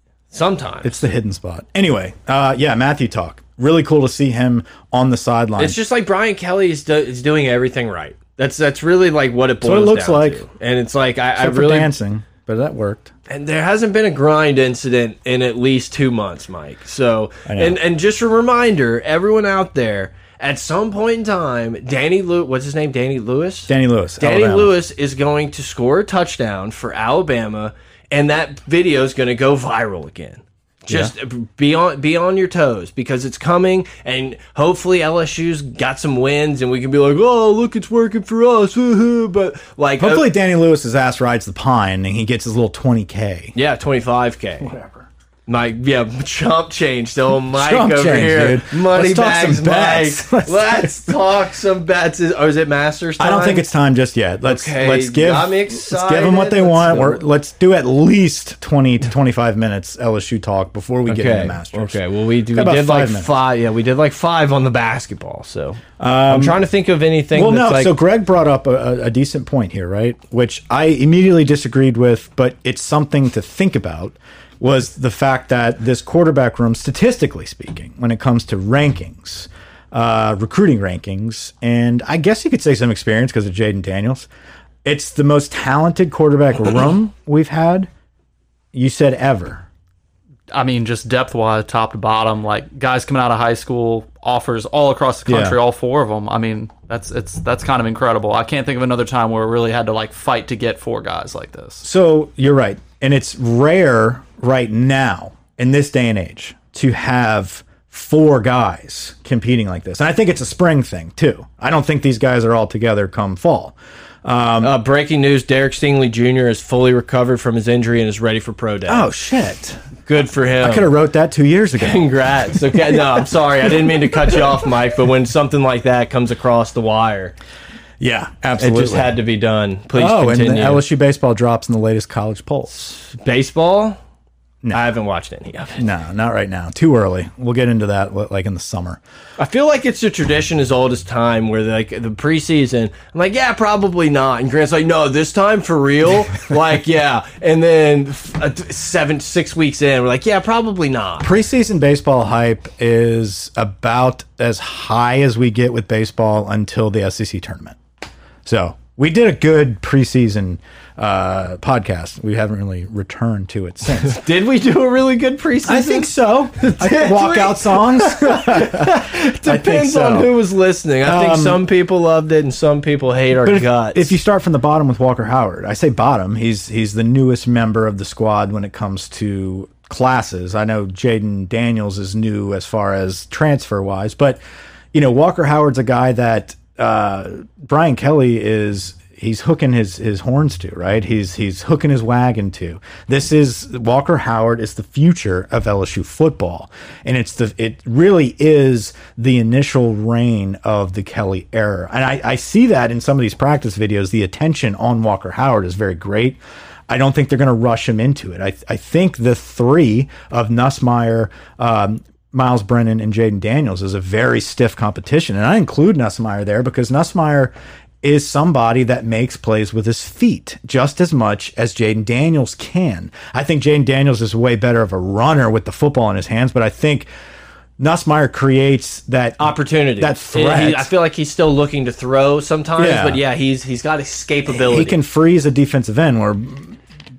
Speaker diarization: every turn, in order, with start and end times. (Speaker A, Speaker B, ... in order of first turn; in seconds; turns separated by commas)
Speaker A: 0.3-1.1, Speaker B: 0.8-5.8, Speaker A: 5.6-11.9, Speaker B: 9.6-10.4, Speaker B: 11.4-13.1, Speaker A: 13.3-40.3, Speaker B: 17.5-17.8, Speaker B: 23.7-24.7, Speaker B: 40.0-43.5, Speaker A: 43.5-44.7, Speaker B: 44.6-45.0, Speaker A: 45.5-53.6, Speaker B: 47.5-51.1, Speaker B: 53.2-62.0, Speaker A: 54.4-57.2, Speaker A: 61.1-67.9, Speaker B: 62.5-63.3, Speaker B: 66.0-66.6, Speaker B: 67.3-84.3, Speaker B: 84.8-87.9, Speaker B: 88.7-89.7, Speaker C: 90.5-101.8, Speaker B: 95.3-95.6, Speaker B: 101.8-114.7, Speaker A: 114.6-119.1, Speaker B: 118.9-119.8, Speaker A: 120.0-120.9, Speaker B: 120.6-122.1, Speaker A: 121.8-127.3, Speaker B: 128.0-129.2, Speaker A: 128.6-130.8, Speaker B: 129.9-132.7, Speaker A: 132.7-134.0, Speaker A: 134.7-135.8, Speaker B: 135.8-139.0, Speaker A: 139.4-151.3, Speaker B: 151.2-157.8, Speaker B: 158.4-164.2, Speaker A: 164.0-174.2, Speaker B: 165.7-170.3, Speaker B: 171.0-171.6, Speaker B: 173.4-184.4, Speaker B: 184.9-227.1, Speaker B: 227.8-230.9, Speaker A: 229.4-235.0, Speaker B: 232.8-233.2, Speaker B: 234.5-236.8